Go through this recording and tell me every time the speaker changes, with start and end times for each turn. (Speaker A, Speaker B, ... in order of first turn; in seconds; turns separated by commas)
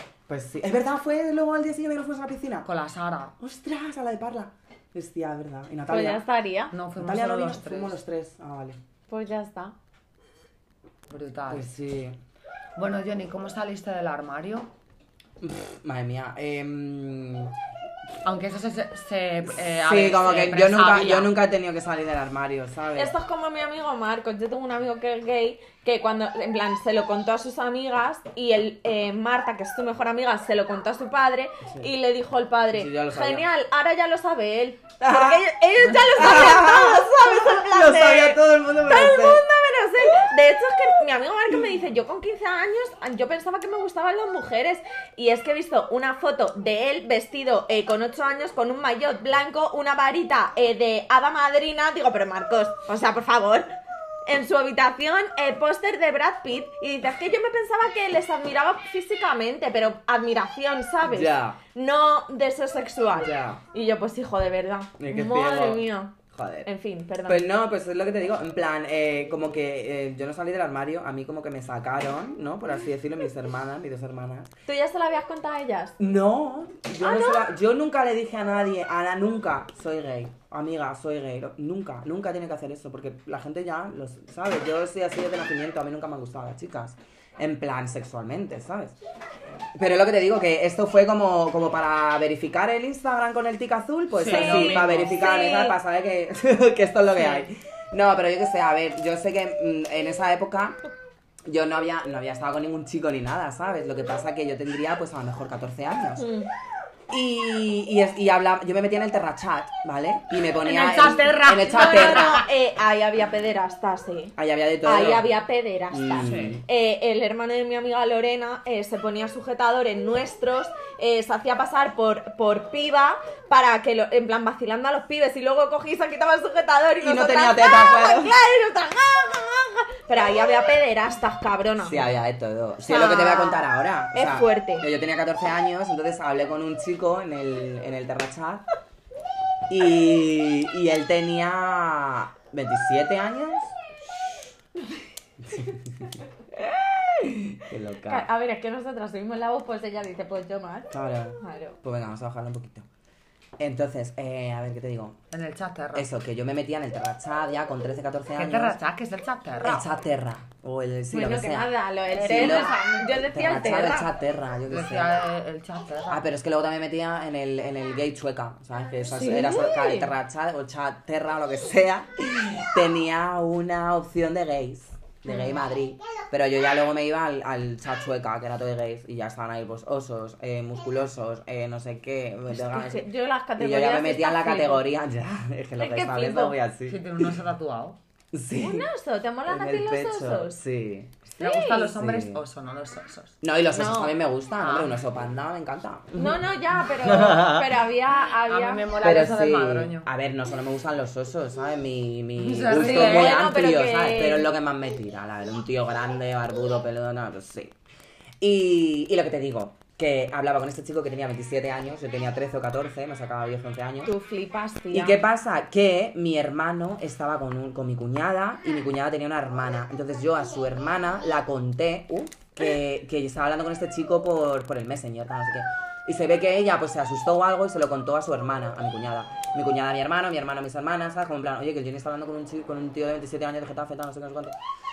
Speaker A: 0.3-2.7, Speaker B: 2.6-3.4, Speaker A: 3.4-6.2, Speaker C: 5.9-6.7, Speaker B: 6.7-8.0, Speaker A: 7.0-8.8, Speaker C: 9.1-9.7, Speaker B: 11.1-11.7, Speaker A: 11.5-12.2, Speaker B: 12.8-14.7, Speaker A: 15.4-17.5, Speaker B: 18.2-21.3, Speaker A: 19.8-23.1, Speaker C: 23.0-53.7, Speaker A: 32.7-33.5, Speaker A: 35.0-39.4, Speaker C: 54.3-67.4, Speaker A: 61.0-61.6, Speaker A: 63.1-63.6, Speaker A: 65.0-66.7, Speaker A: 67.3-74.5, Speaker C: 74.7-76.0, Speaker A: 76.0-89.0, Speaker C: 77.0-77.5, Speaker A: 89.8-100.8, Speaker B: 94.2-95.1, Speaker C: 94.2-95.8, Speaker C: 97.2-97.4, Speaker A: 101.5-106.3, Speaker C: 106.2-106.5, Speaker A: 107.1-112.4, Speaker B: 110.6-112.5, Speaker C: 111.5-132.1, Speaker A: 114.4-115.3, Speaker A: 115.9-116.6, Speaker B: 116.2-116.6, Speaker A: 127.0-128.4, Speaker A: 131.8-138.7, Speaker C: 132.8-134.9, Speaker A: 139.7-143.7, Speaker A: 145.4-146.2, Speaker A: 147.6-148.3, Speaker C: 148.1-150.9, Speaker A: 150.9-152.9, Speaker C: 151.4-151.8, Speaker A: 153.6-155.2, Speaker B: 155.3-156.1, Speaker A: 155.9-158.8, Speaker B: 158.3-159.8, Speaker A: 159.6-165.2, Speaker C: 161.1-164.1, Speaker B: 162.1-163.1, Speaker B: 164.7-166.2, Speaker A: 166.1-183.1, Speaker C: 169.1-170.1, Speaker C: 175.3-175.6, Speaker C: 182.6-184.9, Speaker A: 183.6-187.3, Speaker C: 185.8-186.6, Speaker B: 186.9-188.0, Speaker A: 188.3-188.9, Speaker C: 188.6-190.6, Speaker A: 189.5-191.2, Speaker C: 191.4-191.9, Speaker B: 191.4-193.4, Speaker A: 191.8-192.4, Speaker A: 193.4-196.4, Speaker C: 193.7-194.1, Speaker B: 194.6-195.0, Speaker C: 196.2-198.9, Speaker A: 197.0-197.8, Speaker B: 198.5-200.1, Speaker A: 199.0-207.8, Speaker B: 202.4-203.4, Speaker C: 202.7-204.5, Speaker A: 208.4-214.1, Speaker C: 214.1-215.2, Speaker A: 214.9-234.6